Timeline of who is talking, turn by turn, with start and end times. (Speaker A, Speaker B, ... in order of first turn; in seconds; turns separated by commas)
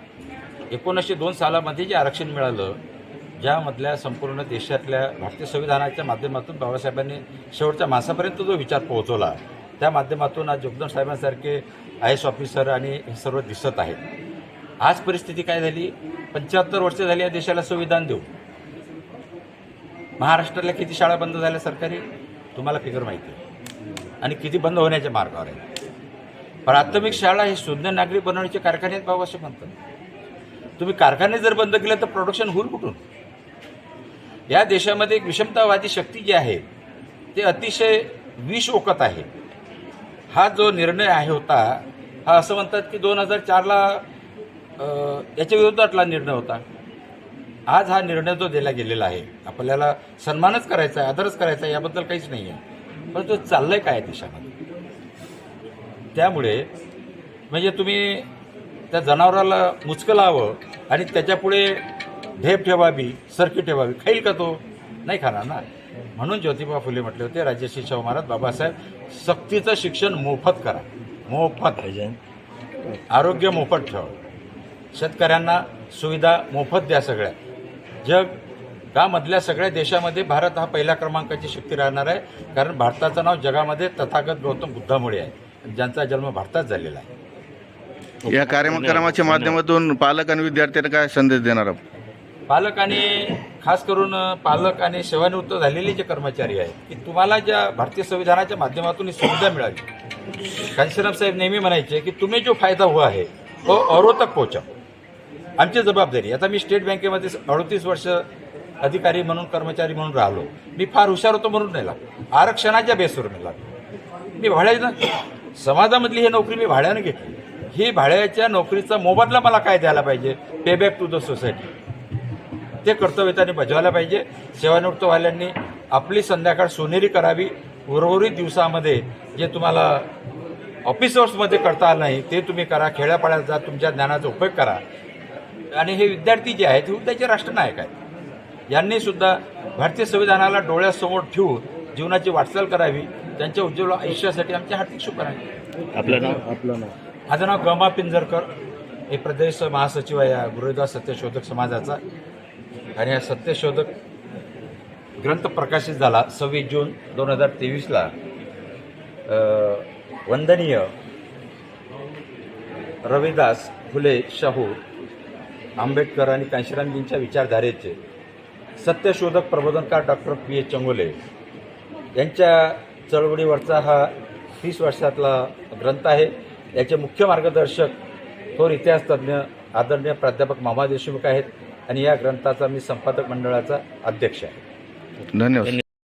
Speaker A: 0.7-2.8, Speaker A: 3.4-14.0, Speaker A: 14.8-18.3, Speaker A: 20.2-22.0, Speaker A: 22.6-23.4, Speaker A: 24.2-25.6, Speaker A: 26.7-29.7, Speaker A: 30.8-33.0, Speaker A: 34.5-36.6, Speaker A: 37.4-39.3, Speaker A: 40.3-44.0, Speaker A: 44.8-46.6, Speaker A: 47.7-52.6, Speaker A: 53.1-54.5, Speaker A: 56.1-56.7, Speaker A: 57.5-58.3, Speaker A: 58.9-61.8, Speaker A: 62.4-65.6, Speaker A: 66.2-71.8, Speaker B: 71.8-72.2, Speaker A: 73.1-74.1, Speaker A: 75.0-77.4, Speaker A: 78.0-78.3, Speaker A: 78.9-87.1, Speaker B: 88.2-89.6, Speaker C: 88.3-91.8, Speaker A: 92.5-99.8, Speaker A: 100.8-104.7, Speaker A: 105.6-108.2, Speaker A: 108.8-113.7, Speaker A: 114.4-115.0, Speaker A: 115.6-121.7, Speaker A: 122.8-130.1, Speaker A: 130.8-134.8, Speaker A: 135.7-137.9, Speaker A: 138.7-145.4, Speaker B: 146.0-146.9, Speaker A: 147.3-148.5, Speaker A: 149.1-152.0, Speaker A: 153.0-153.9, Speaker A: 155.2-158.1, Speaker A: 159.3-160.9, Speaker A: 163.1-164.8, Speaker A: 165.8-168.0, Speaker A: 168.8-171.2, Speaker A: 172.2-177.9, Speaker A: 178.6-184.6, Speaker C: 185.3-185.8